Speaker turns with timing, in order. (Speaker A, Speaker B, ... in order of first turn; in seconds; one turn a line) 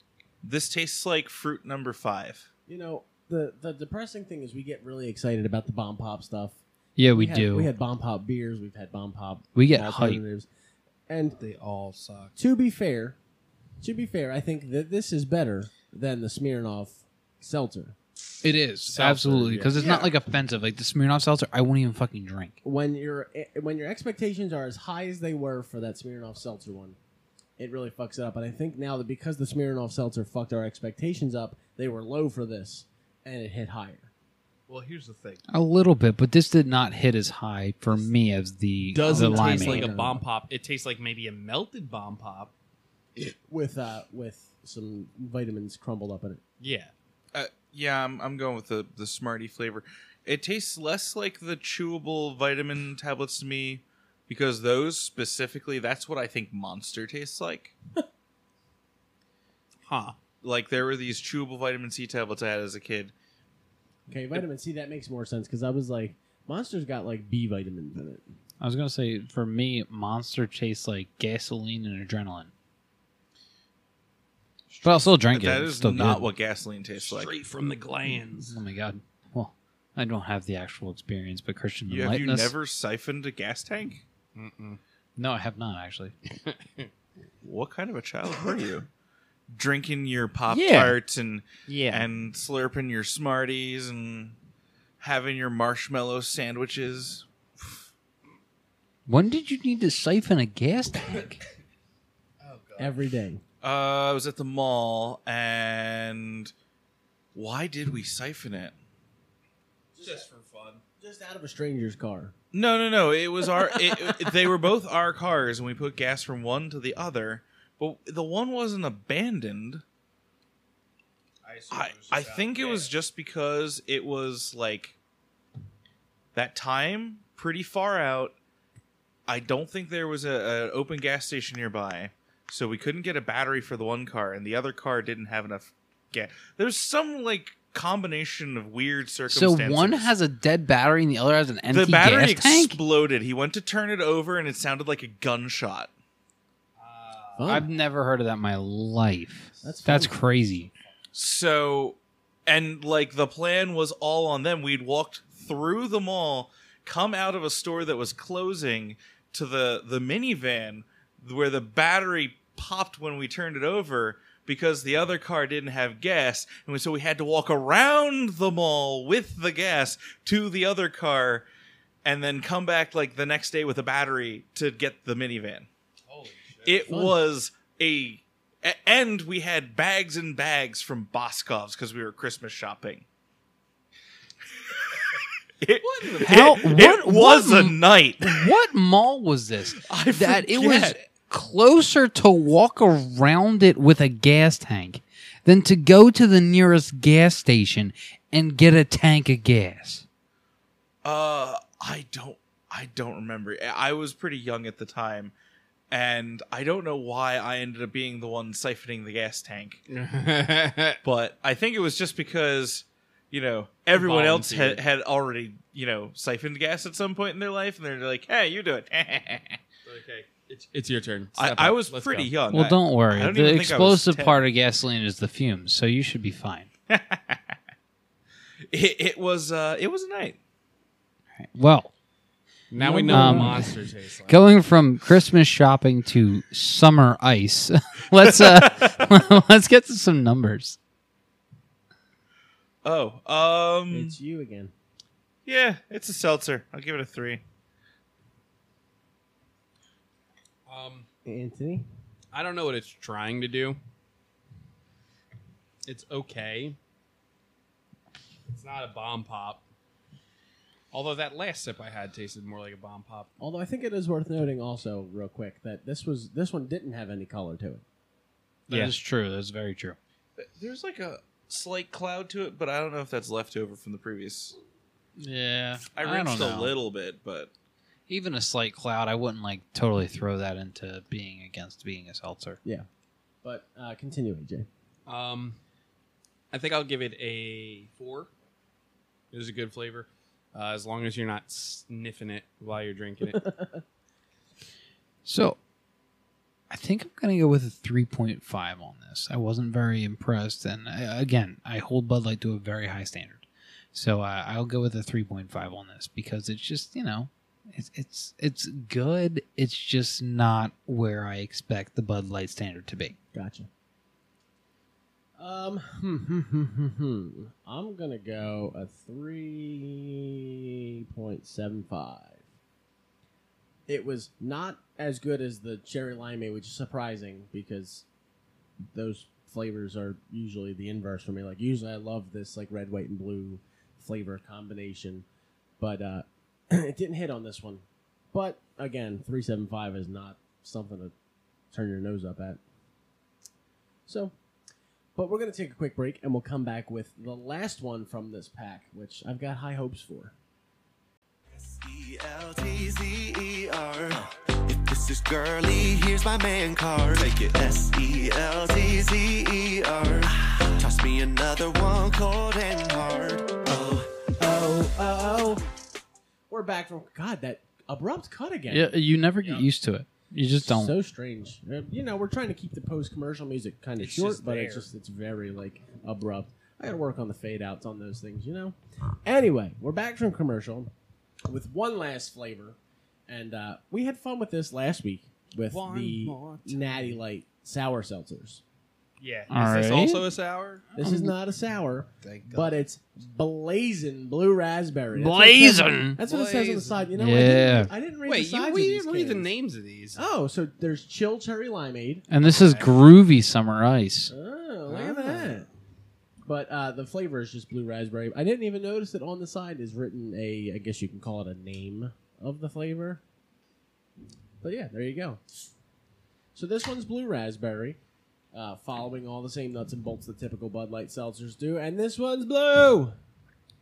Speaker A: 0.4-2.5
Speaker B: 2.7-10.5
Speaker C: 7.0-7.7
Speaker C: 9.6-10.2
Speaker B: 11.1-11.4
Speaker C: 11.4-12.3
Speaker B: 12.4-13.2
Speaker B: 13.8-18.0
Speaker C: 18.4-22.6
Speaker D: 18.9-19.8
Speaker B: 19.8-20.1
Speaker B: 22.6-27.0
Speaker B: 27.6-34.1
Speaker D: 34.7-35.4
Speaker C: 35.5-39.9
Speaker D: 38.9-42.5
Speaker B: 39.0-40.2
Speaker B: 43.2-46.4
Speaker D: 46.6-46.9
Speaker A: 47.3-57.7
Speaker C: 59.9-60.1
Speaker A: 60.4-63.1
Speaker B: 64.1-68.3
Speaker C: 68.6-72.5
Speaker A: 74.8-77.3
Speaker C: 74.8-76.2
Speaker D: 77.0-78.6
Speaker C: 78.4-82.5
Speaker A: 81.9-84.0
Speaker D: 84.3-84.8
Speaker C: 85.2-86.1
Speaker D: 86.4-86.9
Speaker A: 87.4-88.9
Speaker A: 89.5-94.4
Speaker C: 90.5-91.0
Speaker D: 91.7-92.0
Speaker C: 91.7-92.0
Speaker A: 95.0-97.8
Speaker C: 99.1-101.4
Speaker D: 102.4-103.1
Speaker B: 102.8-103.4
Speaker A: 103.6-106.5
Speaker A: 107.3-108.8
Speaker B: 110.0-110.3
Speaker D: 110.0-110.8
Speaker B: 111.0-112.3
Speaker A: 112.5-119.8
Speaker D: 121.4-122.9
Speaker A: 121.7-125.0
Speaker A: 126.3-128.4
Speaker A: 129.3-140.1
Speaker C: 139.3-142.8
Speaker A: 141.7-145.9
Speaker D: 146.8-147.6
Speaker B: 147.4-147.7
Speaker C: 147.5-150.7
Speaker B: 149.6-150.1
Speaker A: 151.1-171.5
Speaker A: 172.1-175.7
Speaker D: 176.1-176.8
Speaker A: 176.7-183.1
Speaker B: 176.9-177.2
Speaker A: 185.1-188.5
Speaker D: 185.8-186.6
Speaker C: 186.2-200.1
Speaker A: 189.7-191.0
Speaker A: 201.0-205.3
Speaker A: 205.9-209.8
Speaker D: 209.9-211.0
Speaker A: 211.0-219.6
Speaker D: 213.9-214.8
Speaker D: 219.9-222.3
Speaker A: 221.4-224.4
Speaker C: 222.5-226.7
Speaker A: 226.9-227.6
Speaker A: 228.7-230.4
Speaker C: 231.4-231.9
Speaker D: 232.7-234.5
Speaker B: 232.8-233.7
Speaker C: 233.0-233.7
Speaker C: 234.3-240.8
Speaker A: 238.4-238.9
Speaker A: 242.8-244.2
Speaker B: 243.9-244.7
Speaker A: 245.5-247.4
Speaker D: 250.7-251.1
Speaker B: 251.3-251.9
Speaker D: 252.3-253.8
Speaker D: 255.9-256.8
Speaker D: 258.5-259.6
Speaker D: 260.9-263.3
Speaker B: 263.4-267.8
Speaker D: 268.7-269.0
Speaker C: 268.7-270.0
Speaker A: 270.4-274.6
Speaker C: 275.2-276.7
Speaker A: 275.9-277.5
Speaker C: 278.1-282.6
Speaker B: 283.4-284.7
Speaker D: 285.1-285.6
Speaker D: 286.5-288.3
Speaker D: 289.3-293.4
Speaker B: 293.3-293.8
Speaker C: 295.2-295.6
Speaker C: 296.7-313.2
Speaker B: 313.3-313.7
Speaker B: 315.4-322.4
Speaker B: 323.9-328.1
Speaker B: 328.9-335.3
Speaker B: 335.8-341.1
Speaker B: 341.7-342.6
Speaker B: 344.1-344.3
Speaker B: 345.2-350.4
Speaker E: 351.5-364.3
Speaker B: 364.4-365.6
Speaker B: 366.5-368.9
Speaker C: 368.7-370.9
Speaker B: 370.6-380.9
Speaker D: 374.0-374.9
Speaker B: 381.5-388.6
Speaker D: 385.7-387.1
Speaker D: 389.2-390.9
Speaker C: 389.5-390.3
Speaker B: 390.9-399.5
Speaker C: 391.0-391.3
Speaker D: 392.2-392.8
Speaker C: 395.1-396.2
Speaker D: 396.2-397.1
Speaker C: 397.2-397.9
Speaker D: 398.3-400.2
Speaker B: 400.1-402.2
Speaker C: 402.3-404.3
Speaker D: 402.4-403.0
Speaker B: 404.3-405.7
Speaker D: 404.9-405.7
Speaker B: 406.4-413.2
Speaker B: 414.6-415.4
Speaker B: 416.6-418.0
Speaker B: 418.5-423.2